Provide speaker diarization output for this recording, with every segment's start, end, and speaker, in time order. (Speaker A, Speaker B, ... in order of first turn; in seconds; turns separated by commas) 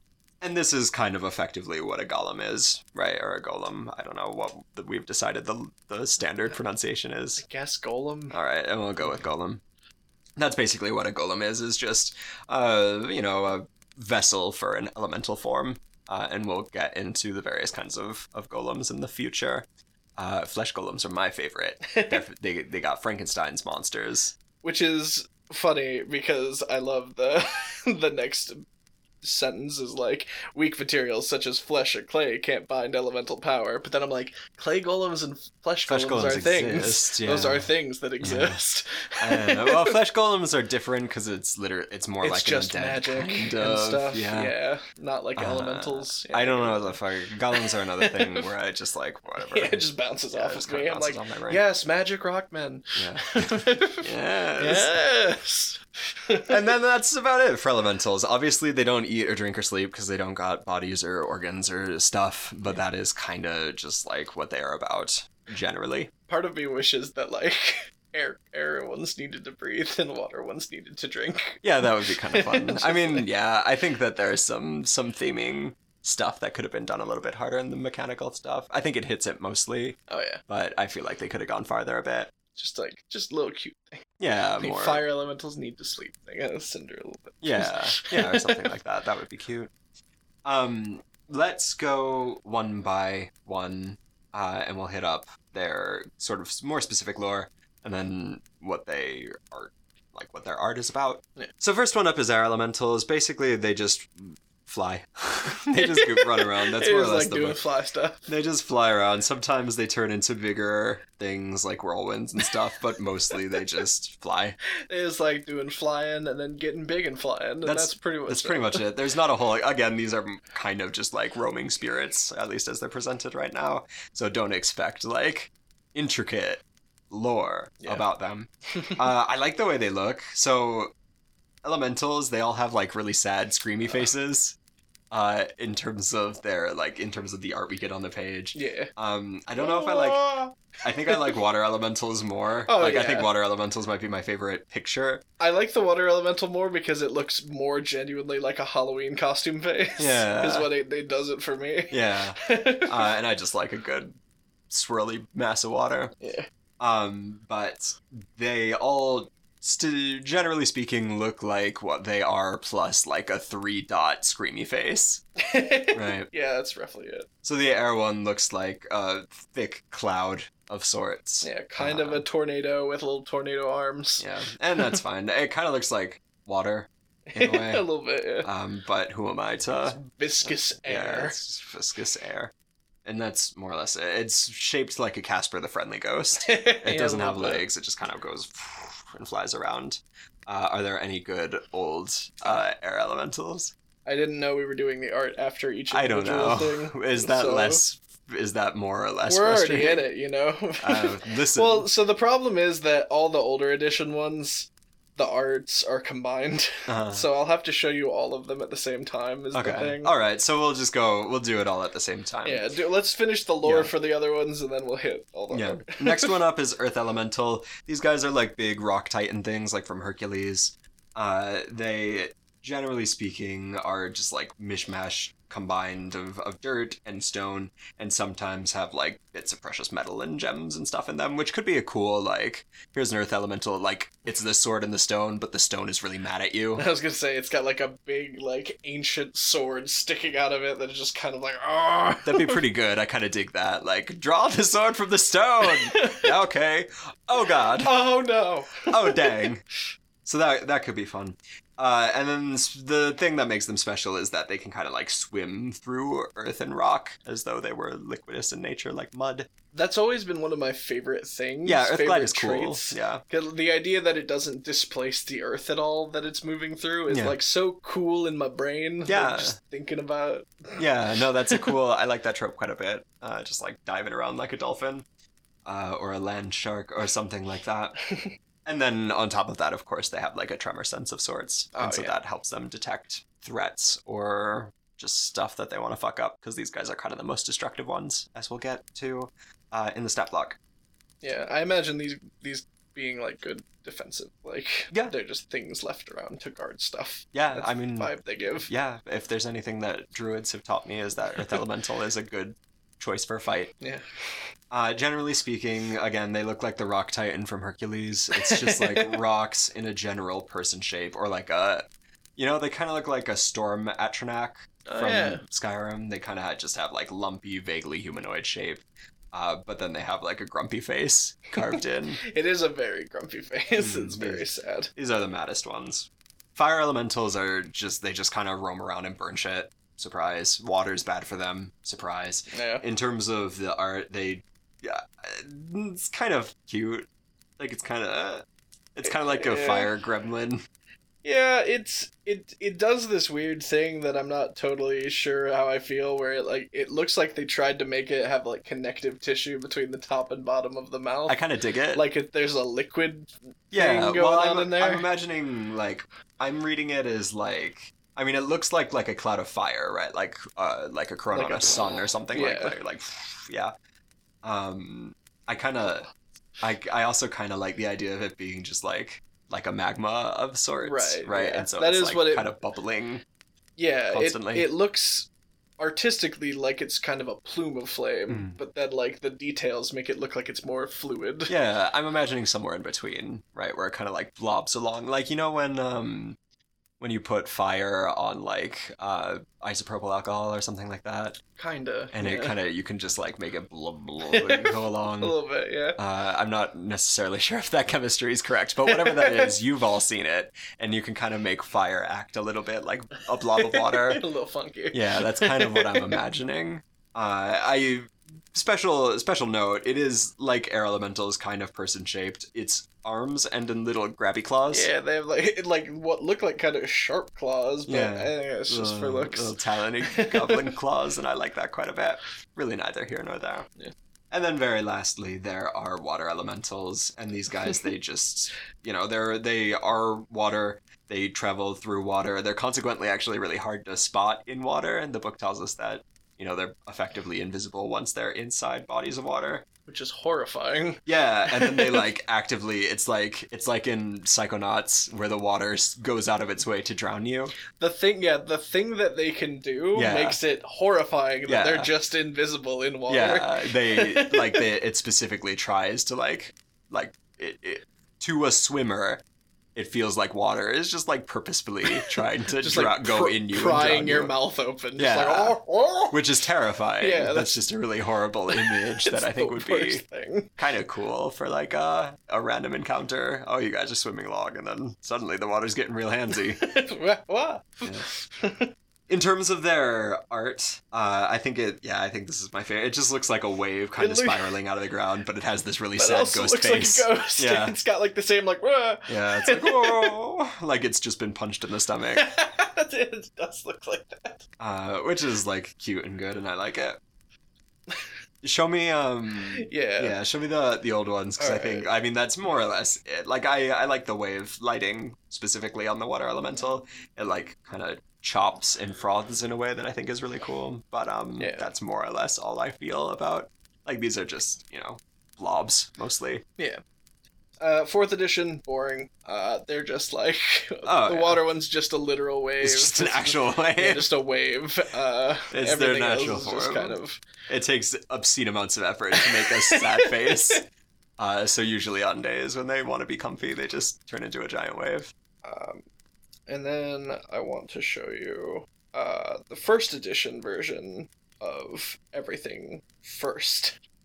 Speaker A: 0.4-7.4, Speaker B: 7.4-8.4, Speaker A: 8.3-9.6, Speaker A: 10.4-19.7, Speaker A: 20.2-24.4, Speaker B: 21.9-22.2, Speaker B: 24.6-28.6, Speaker B: 29.2-40.0, Speaker A: 35.9-37.7, Speaker A: 38.2-38.6, Speaker A: 39.2-44.5, Speaker B: 42.2-47.0, Speaker A: 45.4-51.6, Speaker B: 47.5-48.5, Speaker B: 49.4-56.6, Speaker A: 53.0-54.9, Speaker A: 56.5-66.1, Speaker B: 66.3-73.3, Speaker A: 71.6-82.3, Speaker B: 80.1-80.4, Speaker B: 82.5-88.7, Speaker A: 84.2-85.0, Speaker A: 87.4-89.7, Speaker A: 90.5-107.6, Speaker B: 105.8-108.3, Speaker A: 108.3-114.6, Speaker B: 114.9-118.8, Speaker A: 117.6-130.9, Speaker B: 128.7-129.0, Speaker A: 131.6-134.6, Speaker A: 135.1-140.3, Speaker B: 138.6-138.9, Speaker B: 139.6-141.4, Speaker A: 140.8-145.2, Speaker B: 142.7-143.3, Speaker B: 145.4-153.1, Speaker A: 150.0-150.7, Speaker A: 151.9-154.2, Speaker A: 154.7-156.1, Speaker B: 156.2-156.5, Speaker A: 156.8-165.2, Speaker B: 165.4-167.3, Speaker A: 165.9-166.3, Speaker A: 167.4-172.2, Speaker B: 171.4-174.3, Speaker A: 174.2-177.9, Speaker B: 177.3-178.5, Speaker A: 178.4-182.5, Speaker B: 179.9-181.4, Speaker A: 183.1-193.7, Speaker B: 186.4-187.7, Speaker B: 194.1-197.8, Speaker A: 195.9-200.1, Speaker B: 199.3-210.1, Speaker A: 200.8-201.9, Speaker A: 206.9-207.3, Speaker A: 209.5-212.7, Speaker B: 212.4-216.3, Speaker A: 213.6-213.9, Speaker A: 215.5-236.8, Speaker B: 236.8-242.6, Speaker A: 242.2-248.0, Speaker B: 245.7-246.3, Speaker B: 247.8-249.4, Speaker A: 248.9-249.6, Speaker A: 250.2-259.5, Speaker B: 259.7-270.8, Speaker A: 261.6-263.2, Speaker A: 267.1-267.4, Speaker A: 269.1-269.6, Speaker A: 270.8-275.1, Speaker A: 275.7-278.0, Speaker B: 278.1-278.4, Speaker A: 278.6-290.6, Speaker B: 281.8-282.1, Speaker B: 291.2-298.7, Speaker A: 297.3-298.1, Speaker A: 298.7-303.7, Speaker B: 303.8-304.5, Speaker A: 304.7-322.2, Speaker B: 308.3-309.2, Speaker B: 314.9-315.4, Speaker B: 322.2-324.9, Speaker A: 323.8-324.4, Speaker A: 325.0-337.1, Speaker B: 332.5-332.8, Speaker A: 337.6-340.6, Speaker B: 339.0-339.9, Speaker B: 341.2-351.4, Speaker A: 351.3-352.0, Speaker B: 351.9-355.1, Speaker A: 353.7-363.7, Speaker B: 361.3-362.8, Speaker A: 364.4-366.1, Speaker A: 366.6-373.2, Speaker B: 370.8-372.5, Speaker B: 373.8-381.5, Speaker A: 374.1-374.7, Speaker A: 378.3-378.6, Speaker A: 381.5-386.4, Speaker A: 387.0-391.4, Speaker B: 391.6-392.5, Speaker A: 392.1-395.4, Speaker B: 394.3-396.0, Speaker A: 396.0-404.2, Speaker B: 398.9-399.5, Speaker B: 403.6-406.2, Speaker A: 404.9-414.9, Speaker B: 414.7-420.8, Speaker A: 417.9-423.7, Speaker A: 424.3-439.7, Speaker B: 439.9-442.1, Speaker A: 441.1-447.6, Speaker B: 447.8-454.7, Speaker A: 449.9-450.4, Speaker A: 451.5-451.9, Speaker A: 453.1-459.2, Speaker A: 459.8-464.3, Speaker B: 461.9-466.2, Speaker A: 465.0-465.6, Speaker A: 466.1-470.0, Speaker B: 467.0-467.6, Speaker B: 468.6-470.5, Speaker A: 470.6-476.7, Speaker B: 476.6-478.7, Speaker A: 479.1-487.8, Speaker B: 484.0-484.5, Speaker B: 486.0-490.2, Speaker A: 489.1-492.3, Speaker B: 492.2-494.5, Speaker A: 494.6-497.0, Speaker A: 498.4-516.4, Speaker B: 499.5-500.2, Speaker B: 501.4-501.9, Speaker B: 511.4-511.7, Speaker B: 517.6-527.2, Speaker A: 520.9-521.4, Speaker A: 522.6-524.1, Speaker A: 525.5-527.0, Speaker A: 527.5-530.6, Speaker B: 529.2-530.6, Speaker A: 531.2-535.1, Speaker B: 535.4-535.9, Speaker B: 536.5-543.8